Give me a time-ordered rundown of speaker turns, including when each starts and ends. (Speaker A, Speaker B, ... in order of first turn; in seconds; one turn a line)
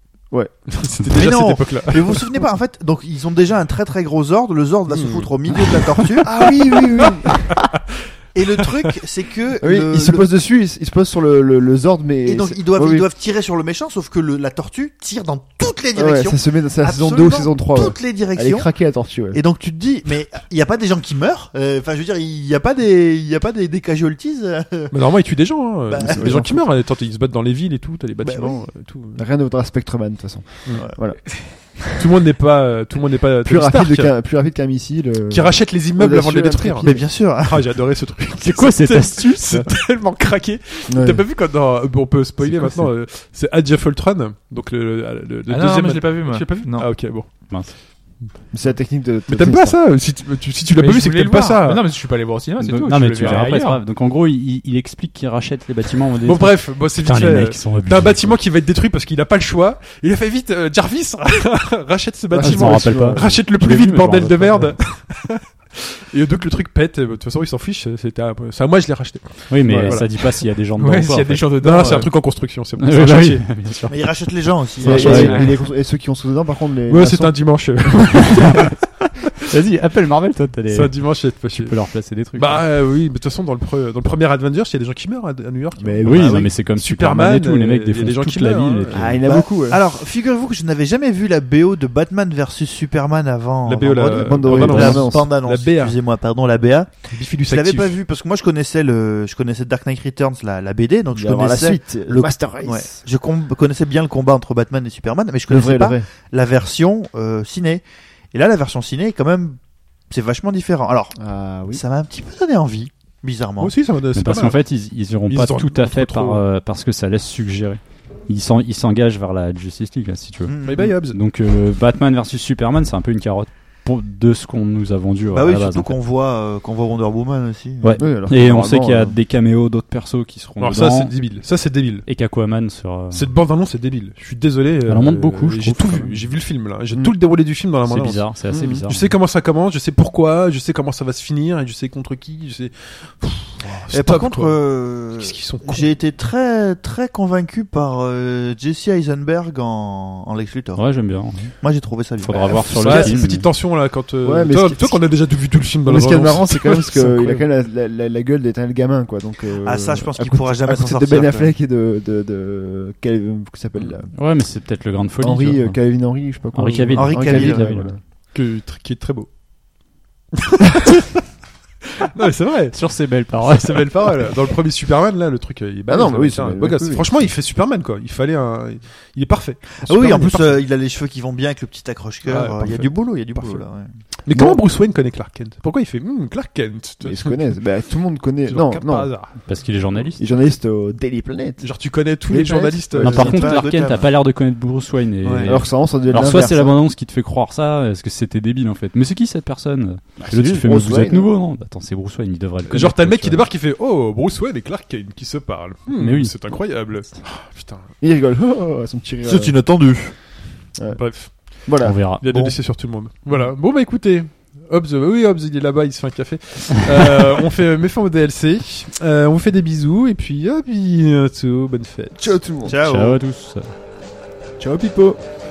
Speaker A: 0.7-2.3
Speaker B: 1.1-6.3
Speaker A: 4.9-7.6
Speaker C: 6.2-7.5
Speaker B: 8.3-10.2
Speaker A: 8.6-8.9
Speaker C: 9.6-13.1
Speaker B: 12.2-18.7
Speaker C: 15.9-19.4
Speaker B: 19.3-24.9
Speaker A: 24.9-29.2
Speaker B: 25.9-26.6
Speaker C: 26.0-26.6
Speaker B: 28.2-28.6
Speaker C: 29.1-31.8
Speaker A: 31.9-34.1
Speaker C: 33.4-37.0
Speaker A: 35.3-47.5
Speaker B: 36.8-37.7
Speaker D: 38.4-39.7
Speaker C: 40.9-41.2
Speaker D: 42.4-42.9
Speaker E: 45.5-46.9
Speaker D: 47.5-47.7
Speaker C: 48.5-49.8
Speaker A: 49.3-51.8
Speaker E: 50.8-53.8
Speaker D: 52.6-58.4
Speaker A: 56.2-70.4
Speaker C: 62.3-63.4
Speaker D: 62.4-64.8
Speaker D: 69.5-72.0
Speaker C: 69.7-70.0
Speaker E: 70.8-72.1
Speaker A: 71.6-73.5
Speaker D: 72.8-74.1
Speaker B: 73.9-75.4
Speaker A: 74.8-75.4
Speaker C: 74.8-77.3
Speaker D: 74.8-75.4
Speaker E: 75.1-75.5
Speaker A: 76.9-78.7
Speaker D: 79.5-82.6
Speaker A: 80.7-89.1
Speaker C: 85.8-86.6
Speaker D: 86.0-89.2
Speaker C: 88.9-89.8
Speaker B: 89.2-111.2
Speaker A: 93.6-96.0
Speaker C: 94.0-95.3
Speaker A: 97.1-98.0
Speaker C: 101.1-103.0
Speaker C: 105.5-106.1
Speaker C: 111.2-111.8
Speaker B: 111.7-113.7
Speaker A: 113.6-114.6
Speaker D: 114.1-126.0
Speaker A: 115.3-116.4
Speaker B: 120.4-120.9
Speaker A: 120.6-121.2
Speaker B: 125.3-128.1
Speaker D: 127.8-131.1
Speaker C: 128.0-129.2
Speaker A: 130.6-132.1
Speaker D: 132.1-133.2
Speaker A: 133.1-145.9
Speaker D: 134.9-136.3
Speaker D: 137.8-139.2
Speaker C: 138.5-138.8
Speaker B: 143.9-152.7
Speaker D: 150.8-151.6
Speaker D: 152.1-153.5
Speaker C: 152.7-153.2
Speaker A: 152.7-157.4
Speaker C: 154.2-155.1
Speaker C: 155.8-164.1
Speaker B: 159.6-161.5
Speaker D: 164.1-165.8
Speaker C: 165.2-168.0
Speaker D: 166.5-167.9
Speaker B: 166.9-167.7
Speaker A: 168.3-169.3
Speaker A: 170.3-171.1
Speaker A: 172.1-180.7
Speaker D: 172.7-173.9
Speaker C: 175.9-177.3
Speaker B: 179.8-183.9
Speaker A: 182.2-183.7
Speaker A: 184.2-187.6
Speaker C: 184.3-184.6
Speaker C: 187.0-189.1
Speaker A: 188.4-190.0
Speaker D: 189.4-190.2
Speaker C: 190.2-191.7
Speaker A: 191.6-193.6
Speaker C: 192.3-193.5
Speaker D: 193.0-203.4
Speaker B: 193.0-194.1
Speaker A: 195.2-195.6
Speaker C: 195.4-196.8
Speaker C: 200.2-201.3
Speaker A: 202.7-207.8
Speaker D: 205.9-206.3
Speaker C: 208.0-209.5
Speaker B: 209.2-210.1
Speaker C: 210.8-211.0
Speaker A: 210.9-222.4
Speaker C: 211.5-212.0
Speaker D: 211.8-212.2
Speaker B: 212.3-212.5
Speaker C: 222.2-222.8
Speaker B: 222.7-223.2
Speaker D: 222.8-223.7
Speaker C: 224.6-225.2